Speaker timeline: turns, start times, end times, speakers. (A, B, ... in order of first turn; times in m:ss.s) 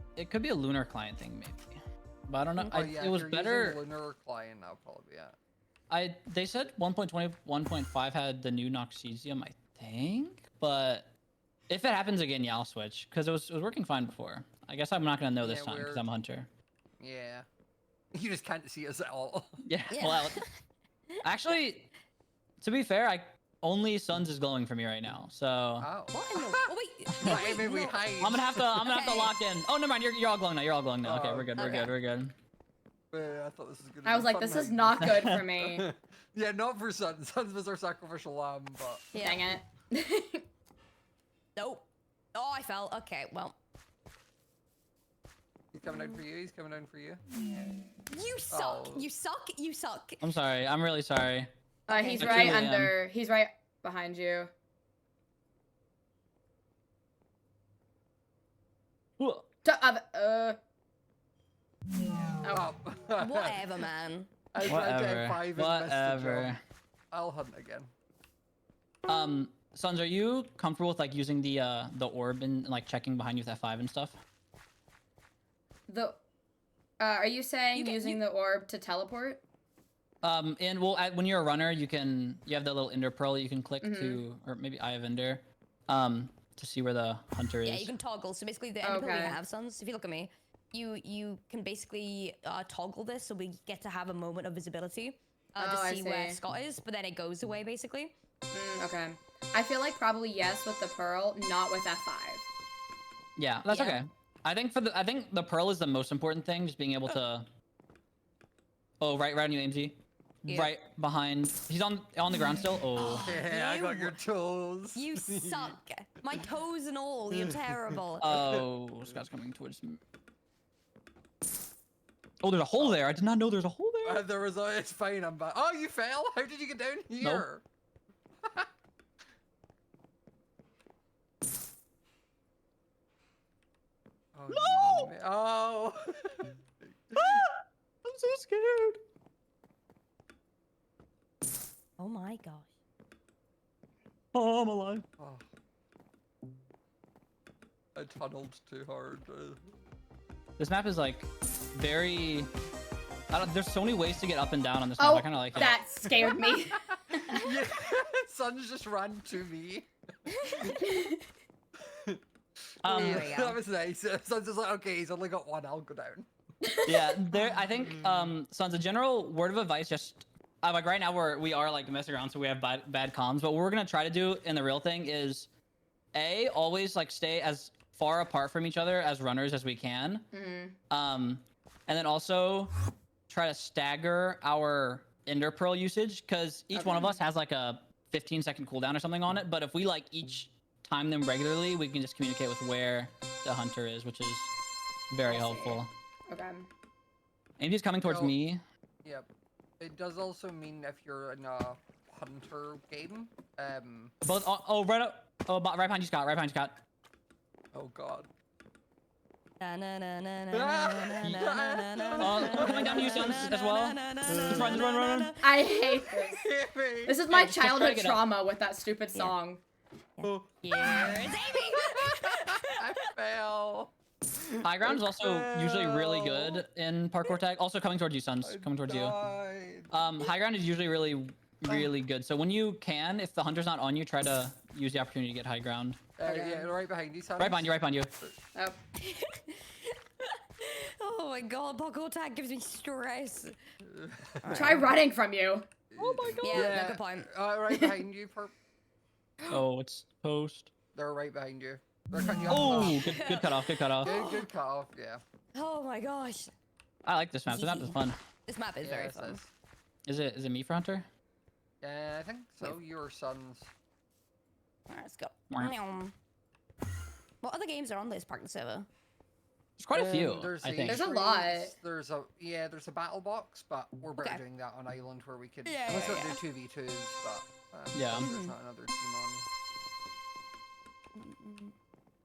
0:00.2-0:03.8 A
0:02.6-0:02.9 B
0:02.7-0:05.4 C
0:05.9-0:11.1 A
0:11.7-0:16.5 A
0:15.4-0:16.1 C
0:17.0-0:17.5 C
0:18.1-0:19.6 C
0:19.6-0:20.4 A
0:19.9-0:20.4 B
0:21.2-0:21.9 A
0:22.6-0:25.9 A
0:25.8-0:28.8 C
0:26.1-0:28.1 B
0:28.2-0:32.3 A
0:28.8-0:29.3 B
0:31.0-0:31.8 C
0:31.6-0:31.9 B
0:33.1-0:39.1 C
0:34.0-0:35.9 D
0:35.0-0:35.4 A
0:39.1-0:39.5 B
0:39.2-0:40.4 D
0:41.6-0:43.6 B
0:45.7-0:47.2 C
0:48.1-0:50.2 B
0:48.5-0:49.1 C
0:50.2-0:51.5 A
0:51.9-0:52.7 B
0:51.9-0:54.5 D
0:52.2-0:53.0 A
0:59.2-0:59.5 A
0:59.6-1:00.6 D
1:02.5-1:03.8 C
1:03.2-1:04.3 B
1:04.5-1:06.6 C
1:04.6-1:06.6 A
1:07.1-1:07.9 C
1:09.1-1:14.2 A
1:15.9-1:16.2 D
1:17.0-1:19.4 D
1:17.7-1:18.2 B
1:20.2-1:27.9 A
1:23.8-1:24.2 D
1:27.6-1:38.1 B
1:28.8-1:29.4 D
1:35.6-1:36.4 D
1:38.5-1:42.4 D
1:43.4-1:47.5 A
1:43.7-1:44.0 B
1:49.0-1:53.3 A
1:50.5-1:50.7 B
1:53.0-1:54.2 B
1:53.2-1:55.8 C
1:55.0-1:58.4 B
1:57.3-1:59.2 C
1:58.2-2:00.0 A
2:02.4-2:04.2 A
2:02.8-2:03.1 C
2:04.0-2:07.6 C
2:07.2-2:07.5 A
2:08.4-2:08.7 C
2:14.3-2:17.4 C
2:14.5-2:15.1 A
2:17.2-2:19.0 A
2:22.0-2:22.7 B
2:24.3-2:25.1 A
2:25.2-2:25.5 C
2:28.0-2:29.6 C
2:30.6-2:32.5 A
2:33.3-2:35.8 A
2:35.0-2:37.5 D
2:35.5-2:36.8 C
2:37.3-2:40.8 C
2:40.8-2:41.2 D
2:41.8-2:42.2 C
2:42.8-2:43.3 A
2:42.8-2:46.3 C
2:42.9-2:43.6 B
2:46.7-2:47.1 D
2:46.8-2:55.5 A
2:47.7-2:48.3 C
2:56.1-3:00.3 A
3:00.3-3:00.8 D
3:00.9-3:02.7 A
3:03.3-3:14.5 A
3:06.7-3:07.2 D
3:15.1-3:15.9 A
3:15.2-3:16.7 D
3:17.6-3:18.6 A
3:18.0-3:18.4 C
3:19.0-3:19.3 C
3:19.8-3:24.1 C
3:24.2-3:26.8 A
3:27.7-3:28.3 C
3:29.6-3:35.8 B
3:30.5-3:33.5 C
3:32.2-3:35.3 A
3:34.3-3:34.8 C
3:35.4-3:36.4 D
3:36.0-3:37.2 C
3:37.1-3:39.6 D
3:37.3-3:38.2 A
3:40.2-3:42.8 B
3:40.2-3:46.6 C
3:44.6-3:49.2 A
3:48.4-3:50.3 C
3:49.9-3:56.0 A
3:56.2-3:58.4 C
3:56.2-3:56.7 B
3:57.4-3:58.1 A
3:59.0-4:03.5 B
4:03.8-4:04.9 C
4:04.4-4:04.9 B
4:04.6-4:05.7 D
4:05.9-4:08.5 C
4:06.0-4:06.8 A
4:06.4-4:08.0 B
4:09.5-4:10.7 A
4:10.9-4:13.0 C
4:12.4-4:14.5 B
4:12.5-4:14.1 A
4:14.0-4:15.2 C
4:15.6-4:16.5 B
4:17.0-4:18.2 A
4:17.5-4:19.4 B
4:18.8-4:19.5 C
4:20.1-4:21.1 A
4:21.8-4:23.7 C
4:24.9-4:26.1 B
4:27.4-4:28.9 B
4:29.8-4:31.0 A
4:29.9-4:39.5 C
4:30.8-4:31.7 D
4:35.6-4:36.4 B
4:37.9-4:38.3 A
4:38.2-4:38.6 B
4:41.2-4:41.7 B